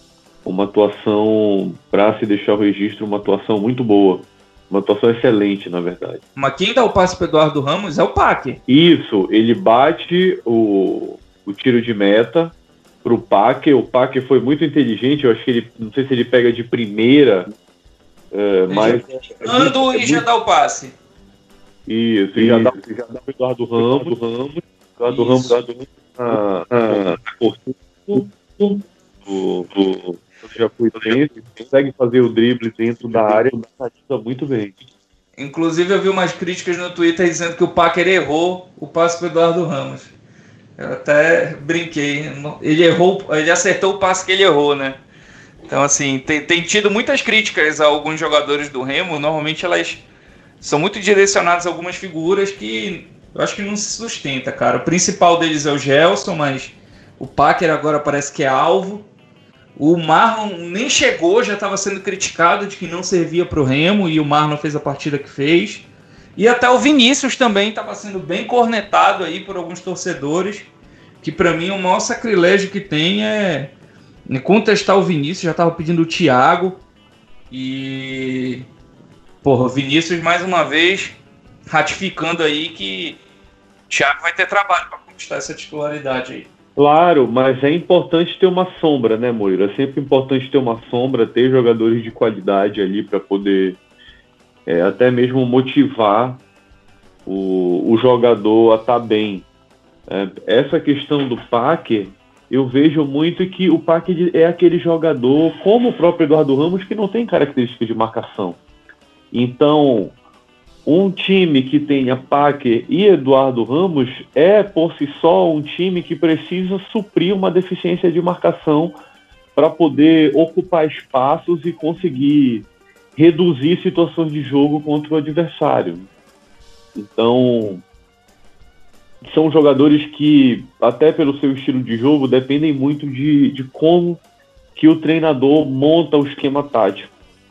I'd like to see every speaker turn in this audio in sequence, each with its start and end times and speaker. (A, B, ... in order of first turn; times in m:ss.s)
0:00.4-0:06.2 A
0:06.4-0:08.6 B
0:08.7-0:17.5 A
0:18.3-0:20.2 A
0:18.7-0:20.9 B
0:21.9-0:34.8 A
0:25.1-0:25.5 B
0:35.4-0:40.1 B
0:40.8-0:45.0 B
0:45.7-0:50.0 B
0:50.6-0:59.0 B
0:59.8-1:05.8 B
1:06.4-1:10.7 B
1:11.2-1:13.7 B
1:14.3-1:16.8 B
1:17.5-1:18.6 B
1:19.4-1:23.2 B
1:23.9-1:26.5 B
1:26.8-1:33.8 A
1:34.7-1:36.4 A
1:37.2-1:39.5 A
1:40.1-1:48.6 A
1:49.3-1:50.2 A
1:50.8-1:59.0 A
1:59.6-2:06.1 A
2:07.0-2:07.8 A
2:09.2-2:14.2 A
2:14.8-2:17.1 A